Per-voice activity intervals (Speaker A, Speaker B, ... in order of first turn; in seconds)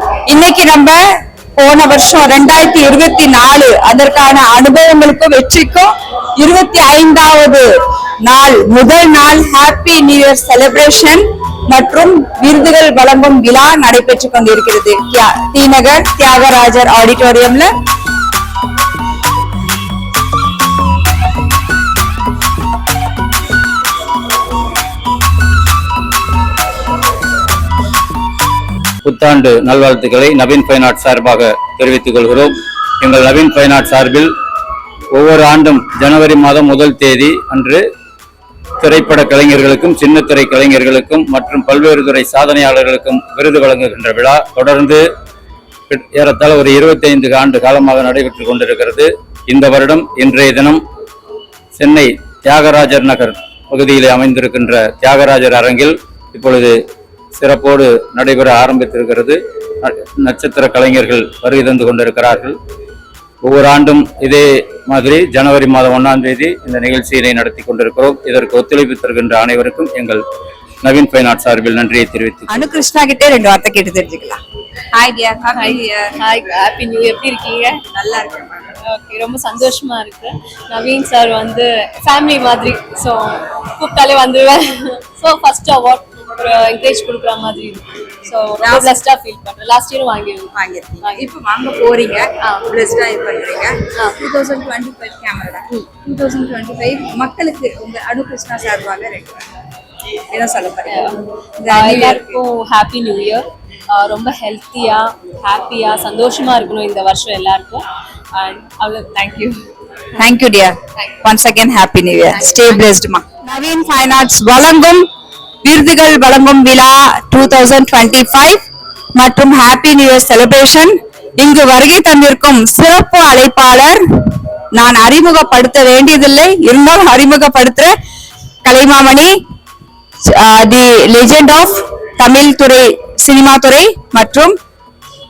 Speaker A: 0.3-1.0, 1.6-7.6, 8.2-17.7, 72.5-74.4, 74.9-76.2, 77.9-78.6, 88.6-88.9, 90.5-99.4, 100.3-101.1, 101.6-102.4, 110.2-115.0, 115.6-118.6, 119.2-124.0, 124.7-127.9, 128.6-129.3, 130.3-134.5
Speaker B: 29.0-34.3, 35.1-37.8, 38.8-45.0, 45.9-50.8, 51.8-56.8, 57.4-62.5, 63.4-70.2, 70.8-72.6
Speaker C: 75.5-77.8, 78.8-91.4, 92.4-92.8, 94.0-94.2, 100.8-101.2, 101.7-107.8, 108.3-109.6, 112.3-112.8